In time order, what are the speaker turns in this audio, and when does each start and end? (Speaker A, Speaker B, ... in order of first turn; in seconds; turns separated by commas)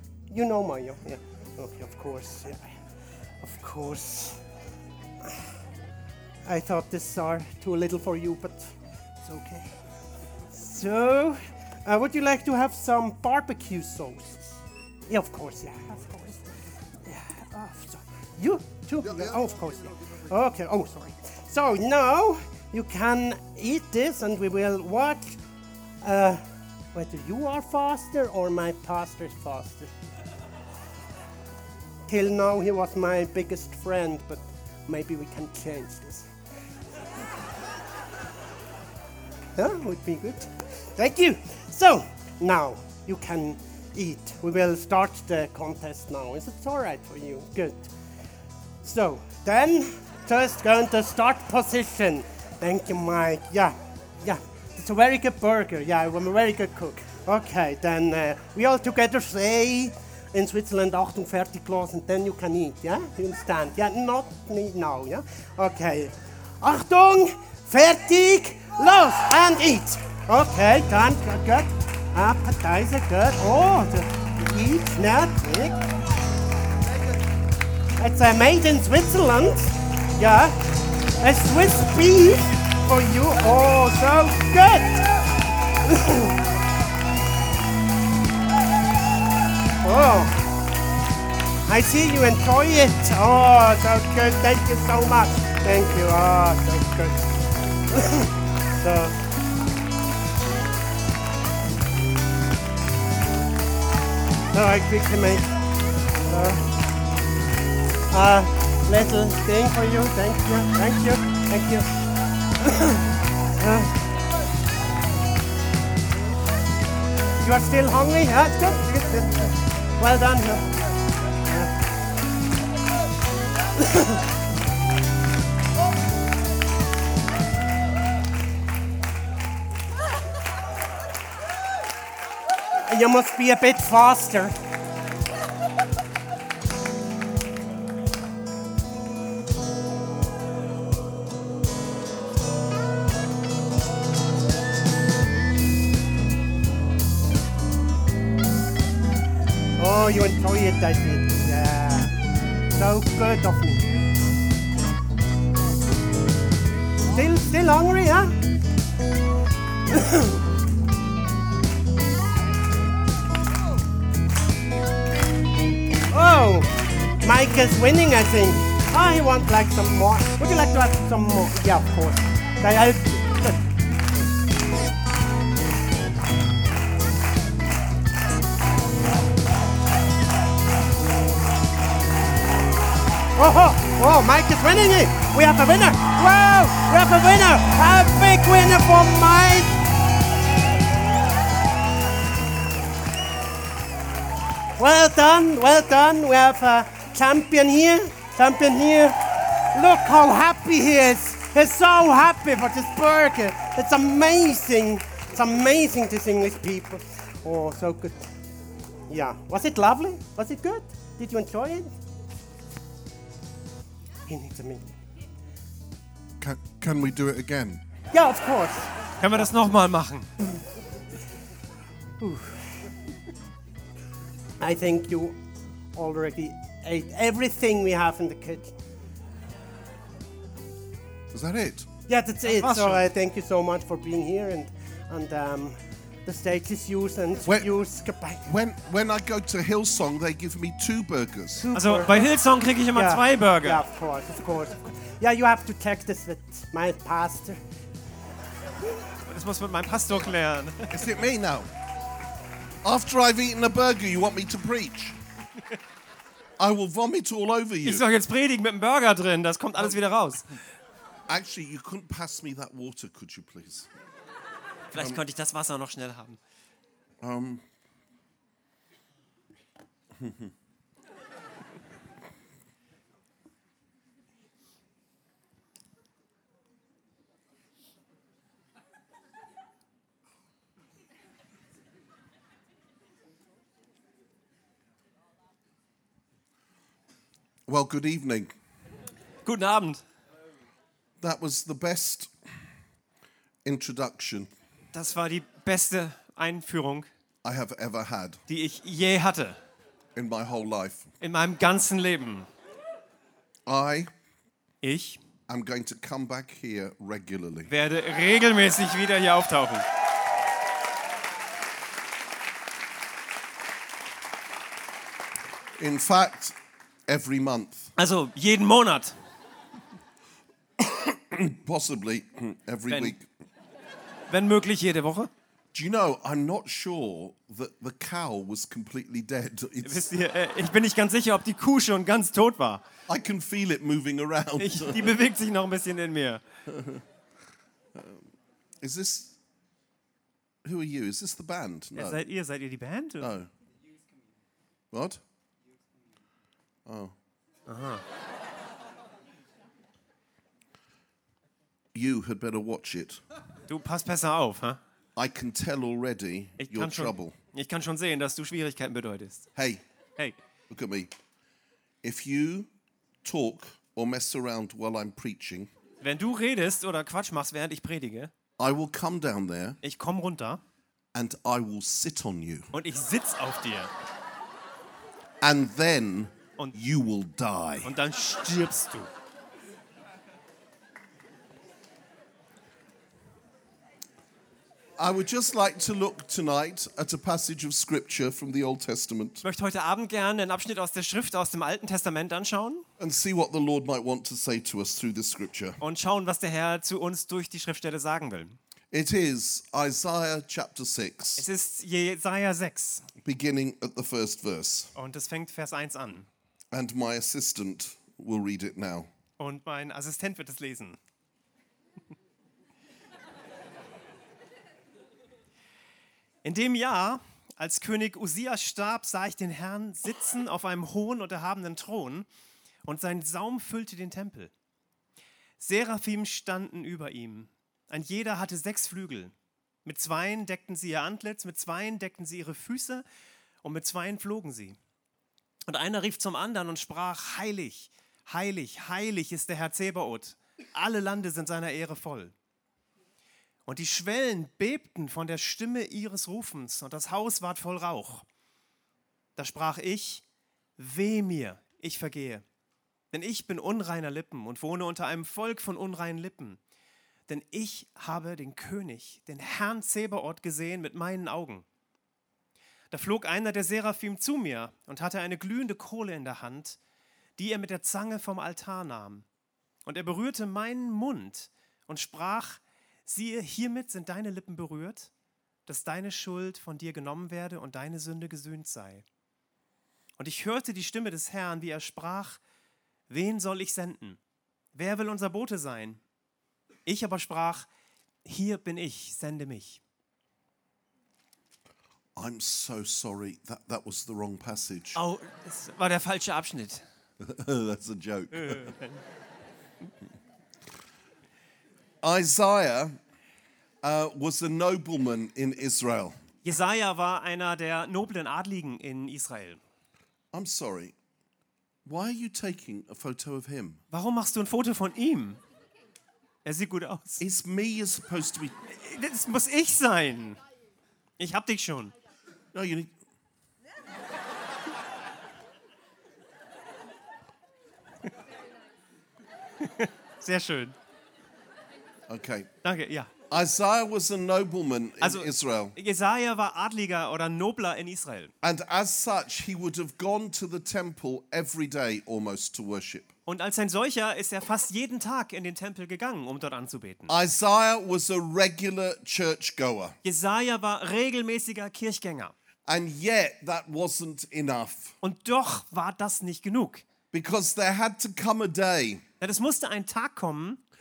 Speaker A: 0.3-2.8, Speaker A: 3.4-4.4, Speaker A: 6.4-9.8, Speaker A: 10.5-25.4, Speaker A: 26.0-29.9, Speaker A: 32.1-36.3, Speaker A: 39.5-47.9, Speaker A: 48.8-75.8, Speaker A: 78.0-80.6, Speaker A: 81.2-85.0, Speaker A: 85.8-86.4, Speaker A: 89.8-90.5, Speaker A: 91.7-99.2, Speaker A: 104.5-105.5, Speaker A: 106.2-106.7, Speaker A: 108.1-111.9, Speaker A: 112.6-114.0, Speaker A: 117.4-120.8, Speaker A: 121.4-121.7, Speaker A: 123.8-124.2, Speaker A: 132.8-134.6, Speaker A: 149.8-152.1, Speaker A: 152.7-153.9, Speaker A: 157.1-158.4, Speaker A: 159.9-160.4, Speaker A: 166.1-173.6, Speaker A: 183.3-189.7, Speaker A: 194.8-199.2, Speaker A: 199.7-208.3, Speaker A: 209.1-211.9, Speaker A: 214.3-214.9, Speaker B: 216.4-217.8, Speaker A: 218.1-218.9, Speaker C: 219.2-220.3, Speaker A: 222.2-222.8, Speaker A: 224.6-225.4, Speaker A: 225.9-228.7, Speaker B: 231.3-231.9, Speaker A: 232.1-238.5, Speaker C: 232.4-233.1, Speaker B: 238.4-241.7, Speaker A: 241.6-242.3, Speaker C: 241.7-243.8, Speaker A: 242.9-247.6, Speaker C: 249.3-251.1, Speaker B: 250.9-251.7, Speaker B: 252.8-255.2, Speaker B: 256.6-258.0, Speaker C: 257.8-260.5, Speaker B: 261.3-263.9, Speaker C: 264.9-266.4, Speaker B: 267.2-267.6, Speaker B: 270.1-270.5, Speaker B: 287.7-288.5, Speaker C: 289.4-290.0, Speaker B: 291.2-292.3, Speaker B: 293.6-294.5, Speaker C: 294.9-297.1, Speaker B: 297.4-298.4, Speaker C: 298.5-299.6, Speaker B: 300.1-301.1, Speaker C: 301.2-302.5, Speaker B: 303.6-304.1, Speaker C: 304.8-305.2, Speaker B: 305.5-307.7, Speaker C: 307.7-309.9, Speaker B: 315.8-316.5, Speaker B: 317.1-317.9, Speaker C: 318.0-319.1, Speaker B: 320.8-323.3, Speaker C: 322.9-323.1, Speaker C: 324.3-325.3, Speaker B: 325.7-330.0, Speaker C: 329.8-332.8, Speaker B: 333.1-335.2, Speaker C: 334.6-336.4, Speaker B: 336.7-337.0, Speaker B: 337.9-338.2, Speaker B: 338.8-339.4, Speaker B: 340.6-342.2, Speaker C: 341.9-343.3, Speaker B: 343.2-343.5, Speaker B: 344.9-345.2, Speaker B: 346.9-347.1, Speaker C: 347.7-348.0, Speaker B: 351.9-353.2, Speaker C: 353.7-354.8, Speaker B: 355.1-357.3, Speaker C: 356.6-359.5, Speaker B: 359.6-359.8, Speaker B: 360.7-361.1, Speaker B: 362.0-362.7, Speaker B: 363.2-365.7, Speaker C: 366.0-368.3, Speaker B: 368.6-369.8, Speaker C: 369.8-370.6, Speaker B: 371.1-372.7, Speaker C: 372.7-373.9, Speaker B: 375.4-377.9, Speaker C: 377.8-379.1, Speaker B: 385.0-389.4, Speaker C: 389.4-392.8, Speaker B: 393.0-395.8, Speaker C: 395.8-398.6, Speaker B: 398.9-401.4, Speaker C: 401.4-403.1, Speaker B: 403.2-404.9, Speaker C: 404.9-406.3, Speaker B: 406.7-409.1, Speaker C: 409.4-411.0, Speaker C: 416.4-422.3, Speaker C: 422.8-424.5, Speaker C: 425.6-429.3, Speaker C: 429.8-433.0, Speaker C: 433.6-434.8, Speaker C: 435.6-442.3, Speaker C: 443.6-448.2, Speaker C: 449.4-450.2, Speaker C: 450.8-452.4, Speaker C: 453.1-456.6, Speaker C: 457.3-461.6, Speaker C: 462.9-466.8, Speaker C: 467.4-469.2, Speaker C: 469.8-475.1, Speaker C: 475.6-479.0, Speaker C: 480.2-482.4, Speaker C: 483.1-484.2, Speaker C: 484.7-486.0, Speaker C: 486.9-487.6, Speaker C: 488.2-489.8, Speaker B: 492.1-495.0, Speaker C: 494.9-496.8, Speaker B: 497.2-498.7, Speaker C: 498.3-499.0, Speaker B: 502.0-503.0, Speaker B: 503.8-506.2, Speaker C: 506.4-509.6, Speaker B: 510.3-510.9, Speaker B: 511.8-513.8, Speaker C: 513.9-515.4, Speaker C: 516.4-517.2, Speaker B: 517.2-518.5, Speaker C: 518.7-520.4, Speaker C: 521.2-521.9, Speaker B: 522.5-522.9, Speaker C: 529.6-530.7, Speaker B: 532.1-532.5, Speaker C: 532.6-533.1, Speaker B: 533.3-535.8, Speaker C: 535.0-538.3, Speaker B: 538.4-543.1, Speaker C: 543.2-547.1, Speaker B: 547.1-550.0, Speaker C: 550.0-552.3, Speaker B: 552.7-555.0, Speaker C: 555.0-556.8, Speaker B: 557.1-559.0, Speaker C: 559.2-560.6